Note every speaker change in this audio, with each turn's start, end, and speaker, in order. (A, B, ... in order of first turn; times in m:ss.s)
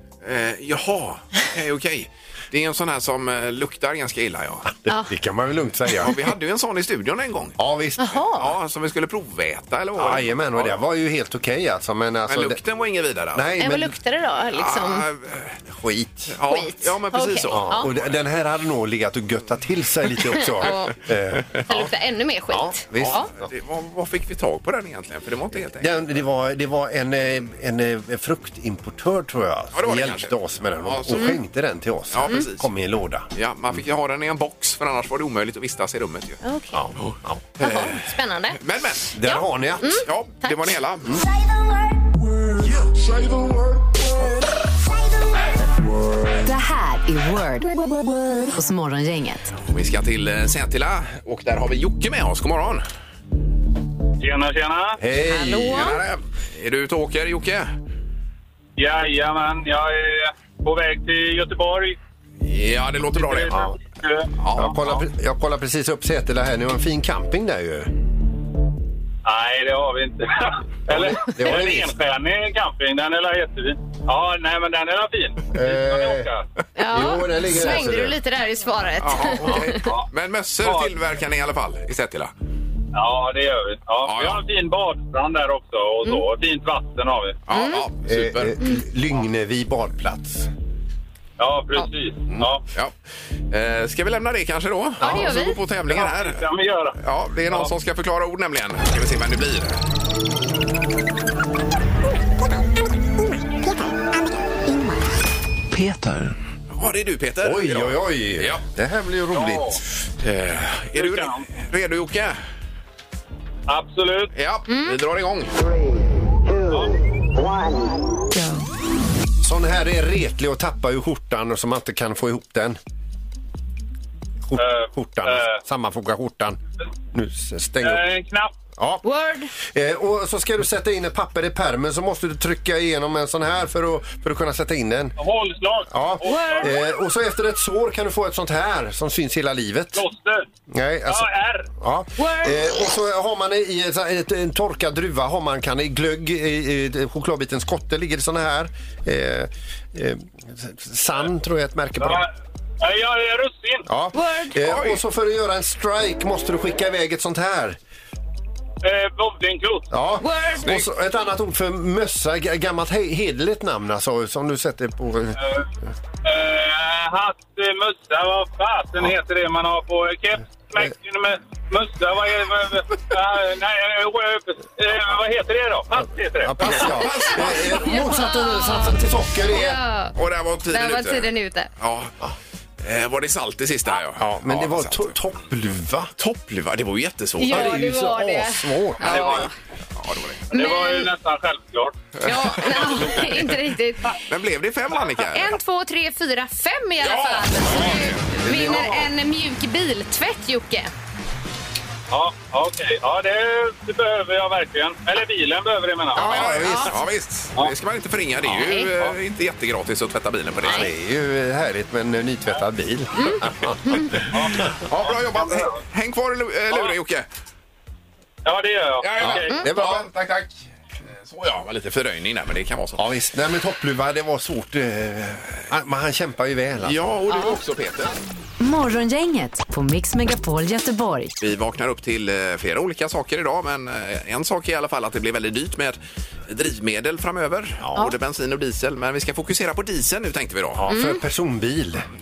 0:00.2-0:04.7 A
0:04.7-0:06.2 B
0:06.0-0:07.6 A
0:07.6-0:08.2 B
0:08.0-0:08.6 C
0:08.3-0:10.8 A
0:10.0-0:12.6 B
0:12.3-0:13.6 A
0:13.3-0:14.0 B
0:13.6-0:15.0 C
0:14.5-0:15.6 A
0:15.7-0:16.4 B
0:16.3-0:18.1 A
0:16.5-0:17.9 C
0:17.5-0:21.9 B
0:20.4-0:21.0 C
0:21.7-0:23.3 C
0:22.5-0:23.3 B
0:23.0-0:26.1 A
0:25.8-0:33.3 B
0:29.7-0:31.4 A
0:31.1-0:31.4 C
0:32.1-0:32.7 A
0:33.4-0:36.4 A
0:36.4-0:36.9 C
0:36.7-0:37.4 B
0:37.0-0:38.1 A
0:37.6-0:38.6 C
0:38.6-0:39.2 A
0:39.1-0:40.0 B
0:39.2-0:40.8 C
0:40.0-0:41.2 A
0:46.4-0:47.7 D
0:48.5-0:49.5 D
0:49.6-0:52.8 A
0:54.2-0:55.0 E
0:55.0-0:56.0 B
0:55.3-0:56.0 C
0:55.7-0:57.7 A
0:58.8-1:02.0 E
1:02.4-1:03.7 A
1:03.1-1:04.7 E
1:04.4-1:05.0 A
1:04.6-1:07.9 B
1:09.2-1:16.4 E
1:10.9-1:11.9 B
1:15.5-1:16.3 B
1:16.8-1:19.8 C
1:16.9-1:18.2 B
1:19.0-1:22.3 A
1:20.6-1:20.9 E
1:22.9-1:27.4 E
1:24.0-1:24.4 A
1:27.5-1:28.6 A
1:27.5-1:27.8 C
1:28.0-1:30.5 B
1:31.4-1:32.6 E
1:32.3-1:32.9 A
1:33.5-1:36.4 A
1:35.0-1:35.6 C
1:35.9-1:37.7 E
1:37.0-1:39.8 A
1:46.7-1:48.6 A
1:47.4-1:49.8 B
1:49.3-1:49.8 E
1:50.2-1:52.4 A
1:51.0-1:51.5 E
1:53.7-1:54.3 E
1:54.4-1:55.5 A
1:54.7-1:55.0 C
1:56.7-1:56.9 E
1:59.4-2:02.8 B
2:04.5-2:06.6 B
2:04.6-2:05.6 E
2:07.1-2:08.0 B
2:07.8-2:08.5 E
2:08.8-2:09.0 B
2:09.0-2:09.5 C
2:09.6-2:15.2 B
2:15.2-2:16.8 E
2:15.9-2:20.0 B
2:16.2-2:16.7 C
2:20.0-2:20.5 E
2:20.7-2:32.2 B
2:21.1-2:21.7 E
2:22.2-2:22.7 C
2:32.0-2:32.3 E
2:32.8-2:33.9 E
2:33.9-2:37.8 B
2:34.1-2:34.6 C
2:34.6-2:35.0 A
2:38.8-2:39.9 E
2:39.9-2:45.4 B
2:40.2-2:40.7 C
2:40.6-2:40.9 A
2:45.4-2:45.7 E
2:46.2-2:57.0 E
2:56.4-2:59.8 B
2:56.6-2:58.0 A
2:57.7-2:59.0 C
2:59.5-3:00.2 C
3:00.2-3:02.1 A
3:00.7-3:01.7 C
3:02.8-3:05.1 A
3:04.2-3:06.1 B
3:06.2-3:07.8 A
3:07.4-3:09.5 C
3:07.5-3:09.5 B
3:09.0-3:09.5 E
3:10.0-3:10.5 A
3:10.5-3:12.0 E
3:10.5-3:11.1 C
3:12.2-3:13.5 A
3:12.2-3:14.2 C
3:14.3-3:15.6 A
3:15.3-3:20.9 C
3:17.0-3:18.9 A
3:18.4-3:19.1 B
3:22.1-3:26.5 E
3:26.2-3:27.0 B
3:26.2-3:30.9 A
3:26.3-3:26.9 C
3:28.5-3:28.9 C
3:30.6-3:34.3 B
3:33.2-3:34.2 C
3:34.3-3:35.8 E
3:34.9-3:37.3 A
3:38.4-3:39.6 E
3:39.0-3:40.6 A
3:39.2-3:40.1 B
3:41.2-3:43.0 A
3:43.0-3:47.0 B
3:46.8-3:48.2 A
3:47.3-3:47.6 C
3:48.6-3:51.3 D
3:51.4-4:00.9 A
4:00.8-4:02.1 B
4:00.9-4:01.2 C